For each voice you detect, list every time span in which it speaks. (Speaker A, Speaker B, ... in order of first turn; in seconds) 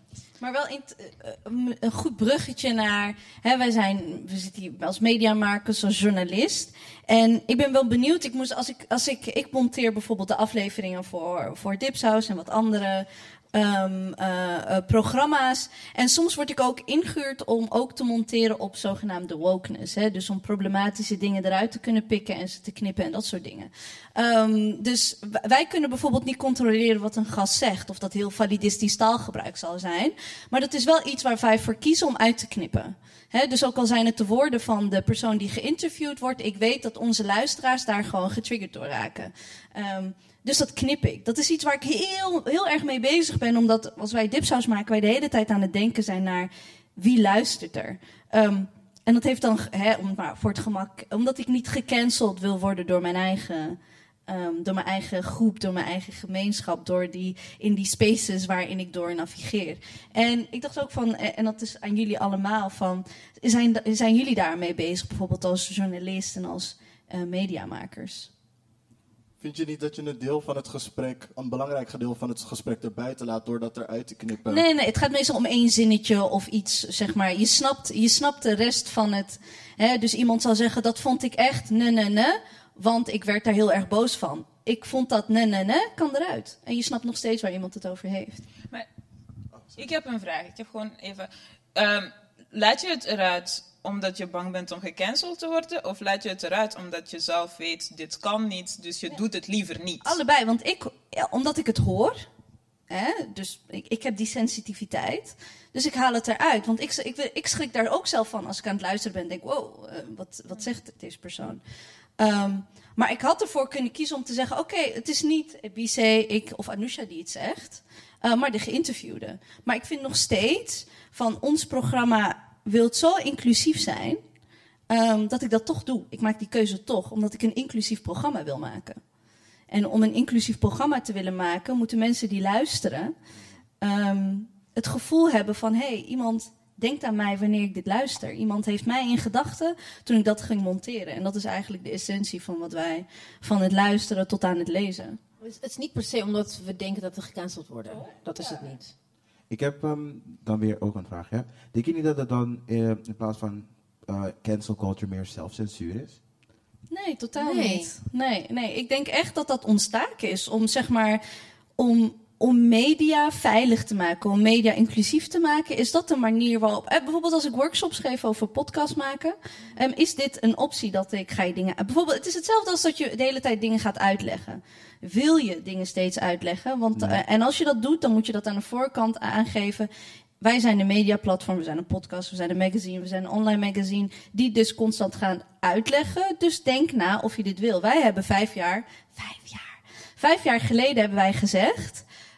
Speaker A: 0.4-68.3, 74.5-88.4, 100.0-102.3, 102.9-111.6, 112.2-124.2, 124.9-129.0, 129.7-133.1, 133.8-145.2, 156.9-161.2, 161.8-179.9, 180.4-192.0
Speaker B: 69.4-74.6
Speaker C: 89.8-100.2
Speaker D: 145.4-148.9, 157.3-157.9
Speaker E: 149.5-156.2, 176.9-177.2